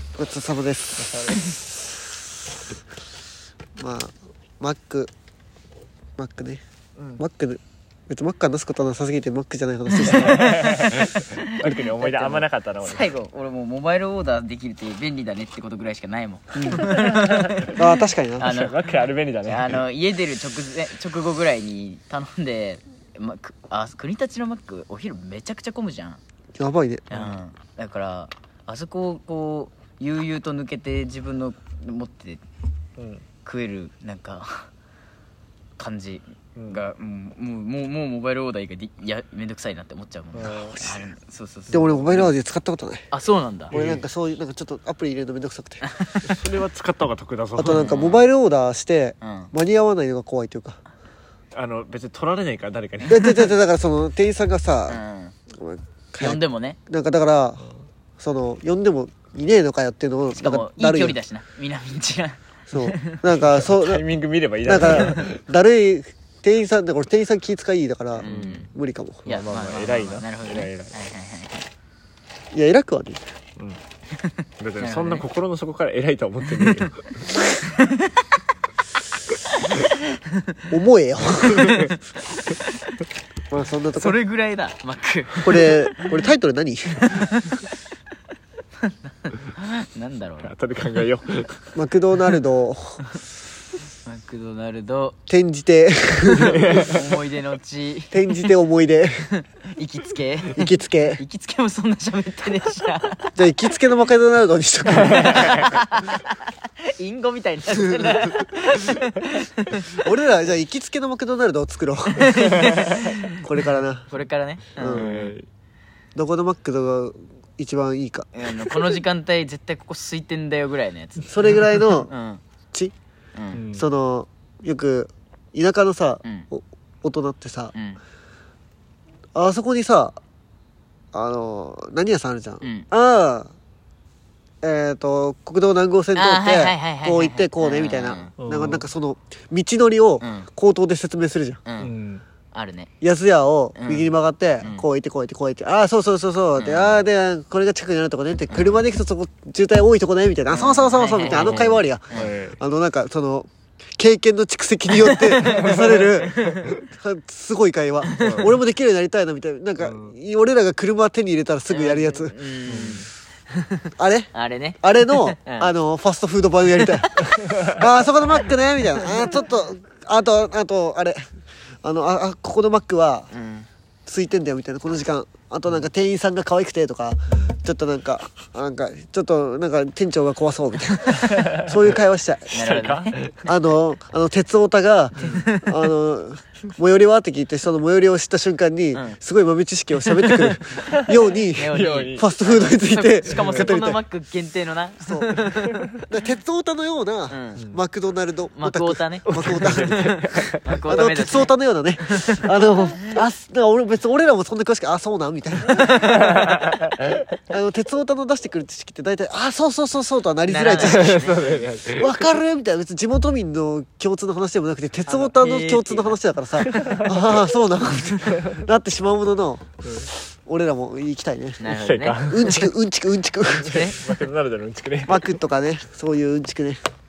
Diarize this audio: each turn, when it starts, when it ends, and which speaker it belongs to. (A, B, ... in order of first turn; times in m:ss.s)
0:00.1-0:01.5 A
0:01.0-0:01.6 B
0:03.8-0:05.1 A
0:06.2-0:06.6 A
0:07.0-0:07.2 B
0:07.2-0:10.7 A
0:09.9-0:18.8 C
0:10.0-0:13.1 B
0:16.6-0:17.7 B
0:17.7-0:18.5 A
0:18.4-0:19.8 B
0:19.4-0:26.2 C
0:26.6-0:27.0 A
0:27.1-0:27.4 B
0:27.1-0:32.4 C
0:33.0-0:33.2 B
0:33.4-0:34.7 C
0:35.8-0:42.2 C
0:36.6-0:36.8 B
0:40.3-0:40.8 B
0:40.6-0:41.0 A
0:41.7-0:42.3 B
0:41.7-0:43.0 A
0:43.1-0:43.8 C
0:43.7-0:44.0 B
0:43.7-0:45.8 A
0:45.8-0:46.4 C
0:46.2-0:48.0 B
0:47.6-0:50.8 A
0:47.6-0:48.3 C
0:49.2-0:49.5 C
0:51.5-0:53.5 B
0:53.0-0:55.0 A
0:54.9-0:55.3 C
0:55.5-0:57.6 A
0:56.2-0:56.8 C
0:58.2-1:01.2 A
1:00.4-1:03.2 C
1:02.7-1:04.0 A
1:03.4-1:05.4 B
1:04.6-1:09.2 A
1:08.2-1:08.7 B
1:08.2-1:08.7 C
1:09.2-1:10.9 B
1:09.2-1:11.6 C
1:12.5-1:13.2 A
1:14.1-1:15.2 C
1:14.6-1:17.7 B
1:16.5-1:18.2 C
1:19.7-1:20.6 C
1:20.7-1:21.8 A
1:21.5-1:23.0 C
1:21.5-1:21.9 B
1:23.5-1:24.2 A
1:23.9-1:26.2 C
1:25.4-1:27.1 A
1:27.0-1:27.6 C
1:28.8-1:30.5 C
1:30.4-1:31.7 B
1:31.7-1:33.0 A
1:34.0-1:35.2 C
1:35.3-1:36.8 A
1:36.3-1:37.1 B
1:36.7-1:38.5 C
1:38.1-1:39.3 A
1:39.3-1:43.4 C
1:40.6-1:41.2 A
1:43.4-1:45.7 A
1:45.0-1:50.0 C
1:47.8-1:48.2 A
1:49.9-1:54.1 A
1:52.1-1:53.4 C
1:52.6-1:52.9 B
1:54.1-1:55.3 C
1:54.8-1:55.1 A
1:54.8-1:55.5 B
1:56.1-1:59.0 A
1:58.3-2:02.4 C
2:01.3-2:02.1 A
2:03.4-2:03.6 C
2:03.5-2:03.9 B
2:03.7-2:07.7 A
2:07.7-2:08.0 C
2:09.3-2:10.2 A
2:11.1-2:13.5 A
2:12.6-2:12.9 C
2:14.6-2:21.6 A
2:16.1-2:18.3 C
2:18.4-2:18.8 B
2:20.2-2:20.5 C
2:21.6-2:21.9 C
2:21.8-2:22.2 B
2:22.5-2:22.9 C
2:23.0-2:42.3 A
2:23.7-2:24.9 C
2:26.6-2:27.0 C
2:28.5-2:28.8 C
2:30.5-2:32.3 C
2:31.2-2:32.6 B
2:34.9-2:36.8 C
2:35.4-2:36.7 B
2:38.0-2:38.4 C
2:38.1-2:38.6 B
2:39.8-2:40.1 B
2:41.7-2:45.7 C
2:42.7-2:43.1 B
2:44.0-2:51.2 A
2:47.0-2:47.4 C
2:47.5-2:47.7 B
2:49.0-2:49.3 C
2:51.8-2:53.3 A
2:53.3-2:53.7 C
2:54.0-3:02.6 A
3:01.2-3:01.8 B
3:02.5-3:03.2 C
3:02.5-3:03.5 B
3:03.4-3:14.0 A
3:05.2-3:05.4 B
3:05.2-3:05.7 C
3:10.0-3:10.5 C
3:10.8-3:12.3 B
3:11.5-3:16.0 C
3:13.3-3:13.7 B
3:15.0-3:26.1 A
3:15.4-3:15.8 B
3:17.3-3:17.6 C
3:18.5-3:22.5 C
3:19.3-3:21.0 B
3:25.7-3:26.5 C
3:25.9-3:27.2 B
3:27.5-3:31.3 A
3:30.5-3:31.7 C
3:30.8-3:32.3 B
3:31.8-3:39.7 A
3:35.1-3:37.2 C
3:36.6-3:37.4 B
3:38.3-3:38.6 B
3:39.8-3:40.1 B
3:40.4-3:41.6 A
3:41.6-3:42.5 C
3:41.6-3:42.7 B
3:42.2-3:44.0 A
3:43.6-3:45.4 B
3:43.6-3:44.0 C
3:45.0-3:46.8 A